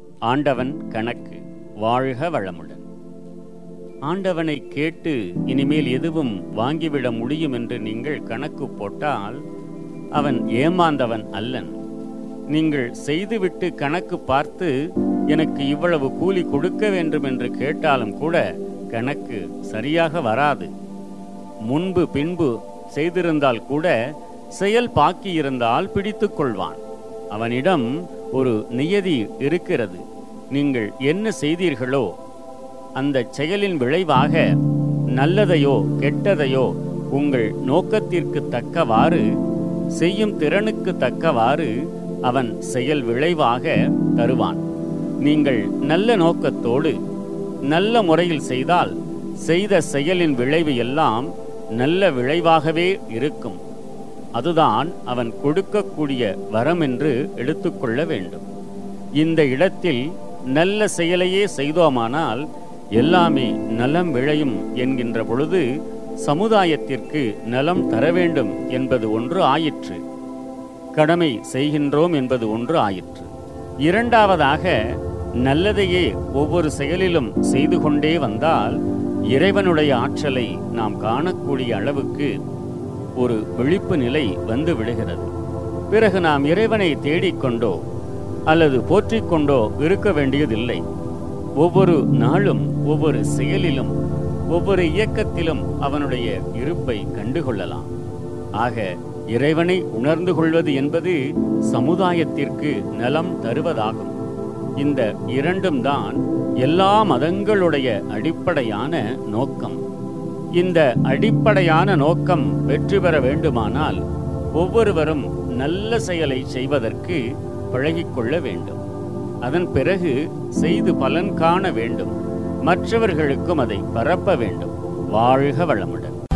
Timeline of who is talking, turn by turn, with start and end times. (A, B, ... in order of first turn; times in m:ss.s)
0:00.2-0:02.8 A
0:04.1-0:09.4 A
0:10.1-0:11.8 A
0:12.5-0:14.7 A
0:15.3-0:20.7 A
0:21.6-0:23.9 A
0:24.5-0:26.8 A
0:27.3-0:32.1 A
0:33.0-0:34.5 A
0:35.1-0:39.3 A
0:39.9-0:44.6 A
0:45.2-0:47.0 A
0:47.7-0:53.6 A
0:54.3-0:58.5 A
0:59.2-1:05.7 A
1:06.2-1:10.0 A
1:10.9-1:13.3 A
1:13.8-1:18.8 A
1:19.3-1:22.4 A
1:23.2-1:25.3 A
1:25.9-1:27.8 A
1:28.5-1:30.8 A
1:31.6-1:34.0 A
1:34.5-1:37.9 A
1:38.6-1:44.2 A
1:44.8-1:49.8 A
1:50.5-1:54.0 A
1:54.5-1:58.8 A
1:59.4-2:06.2 A